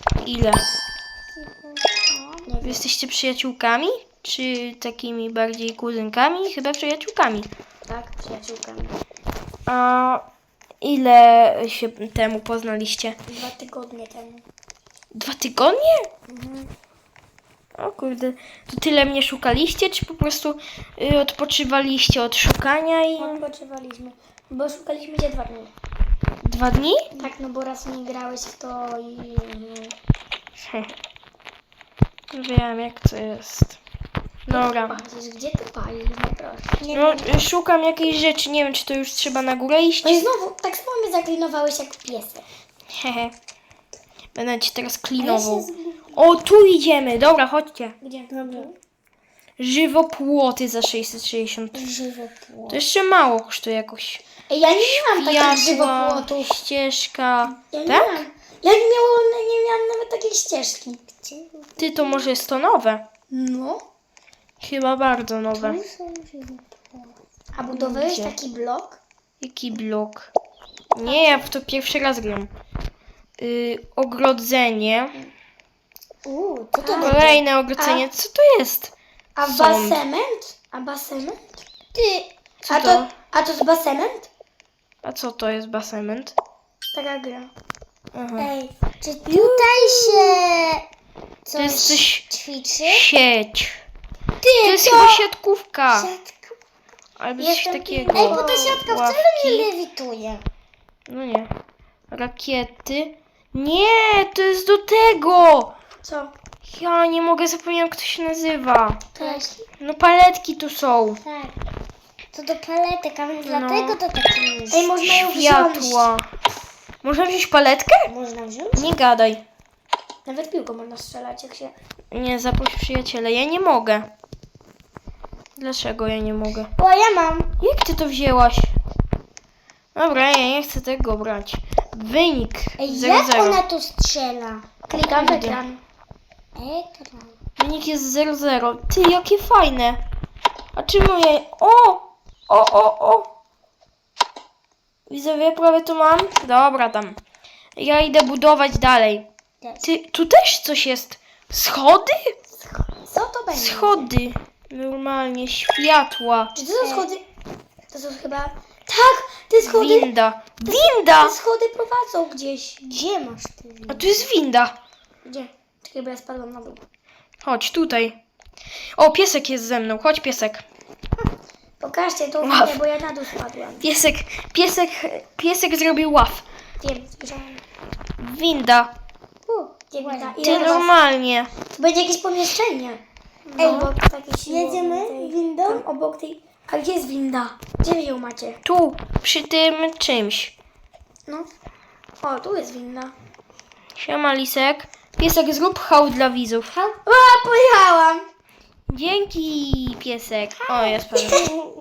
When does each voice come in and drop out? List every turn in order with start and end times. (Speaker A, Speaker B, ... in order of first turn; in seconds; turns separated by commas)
Speaker A: 0.2-0.6, Speaker B: 1.3-2.5, Speaker C: 2.4-2.8, Speaker A: 2.6-7.5, Speaker C: 7.9-8.9, Speaker A: 9.7-10.2, Speaker A: 10.8-13.2, Speaker C: 13.3-14.4, Speaker A: 15.1-16.1, Speaker C: 16.3-16.7, Speaker A: 17.8-23.4, Speaker C: 23.2-25.7, Speaker A: 26.4-27.1, Speaker C: 27.1-29.9, Speaker A: 30.6-30.9, Speaker A: 32.3-33.8, Speaker A: 34.5-35.0, Speaker C: 34.5-36.8, Speaker B: 36.8-37.3, Speaker A: 36.9-40.2, Speaker C: 40.0-42.4, Speaker A: 42.9-43.3, Speaker A: 44.3-47.9, Speaker B: 45.2-46.0, Speaker C: 48.0-48.7, Speaker B: 48.3-48.7, Speaker A: 49.6-51.9, Speaker B: 51.7-52.8, Speaker A: 52.7-54.2, Speaker C: 54.5-56.5, Speaker A: 54.8-58.2, Speaker C: 57.5-61.0, Speaker B: 61.1-62.3, Speaker A: 61.8-63.0, Speaker C: 63.3-63.8, Speaker A: 64.6-65.8, Speaker B: 65.5-67.2, Speaker C: 67.5-69.0, Speaker A: 67.7-68.3, Speaker A: 69.4-70.3, Speaker A: 70.9-72.5, Speaker B: 71.0-71.4, Speaker A: 73.4-75.1, Speaker B: 76.2-77.4, Speaker C: 76.8-77.2, Speaker A: 77.0-80.0, Speaker C: 77.8-78.0, Speaker C: 79.3-81.6, Speaker B: 81.9-82.3, Speaker A: 82.6-83.1, Speaker C: 82.7-84.3, Speaker A: 85.0-86.3, Speaker C: 86.9-87.5, Speaker A: 88.1-88.5, Speaker B: 88.3-90.8, Speaker C: 89.2-90.4, Speaker B: 91.5-93.0, Speaker A: 91.5-92.2, Speaker A: 92.8-93.8, Speaker B: 94.4-95.2, Speaker A: 94.6-96.1, Speaker B: 95.9-96.6, Speaker A: 97.2-99.7, Speaker C: 97.4-98.8, Speaker B: 98.1-100.4, Speaker A: 101.1-101.5, Speaker A: 102.1-105.7, Speaker C: 106.0-106.3, Speaker A: 106.6-109.1, Speaker C: 109.1-109.7, Speaker B: 109.2-109.5, Speaker A: 109.8-111.2, Speaker B: 111.2-111.5, Speaker B: 112.3-114.9, Speaker A: 113.4-114.0, Speaker C: 114.7-116.1, Speaker A: 115.0-116.2, Speaker A: 117.0-118.1, Speaker B: 118.1-118.9, Speaker A: 118.7-119.4, Speaker C: 120.2-121.7, Speaker A: 122.1-124.1, Speaker A: 125.6-126.7, Speaker B: 126.8-127.5, Speaker A: 127.6-128.7, Speaker A: 129.9-133.6, Speaker B: 132.8-134.7, Speaker C: 134.9-135.8, Speaker A: 134.9-135.6, Speaker B: 136.5-137.3, Speaker A: 137.6-140.0, Speaker A: 140.8-143.3, Speaker A: 145.1-147.2, Speaker A: 147.8-149.2, Speaker A: 149.8-152.3, Speaker C: 152.7-154.1, Speaker A: 153.5-156.5, Speaker C: 156.5-157.2, Speaker B: 156.8-157.1, Speaker C: 157.9-160.1, Speaker A: 159.6-161.3, Speaker C: 160.6-162.8, Speaker B: 162.8-164.2, Speaker A: 163.9-164.7, Speaker C: 165.8-166.8, Speaker A: 167.4-168.2, Speaker A: 169.0-170.6, Speaker C: 171.8-173.9, Speaker A: 172.4-172.8, Speaker A: 173.8-176.4, Speaker C: 176.8-177.6, Speaker A: 178.2-178.9, Speaker B: 179.5-180.9, Speaker C: 179.9-180.9, Speaker A: 180.4-181.5, Speaker C: 181.7-188.6, Speaker B: 183.6-183.9, Speaker A: 183.6-183.9, Speaker B: 184.4-185.8, Speaker A: 188.6-190.5, Speaker C: 192.2-193.1, Speaker A: 194.0-196.7, Speaker B: 196.7-197.0, Speaker C: 197.0-198.2, Speaker A: 198.9-201.5, Speaker B: 200.6-201.5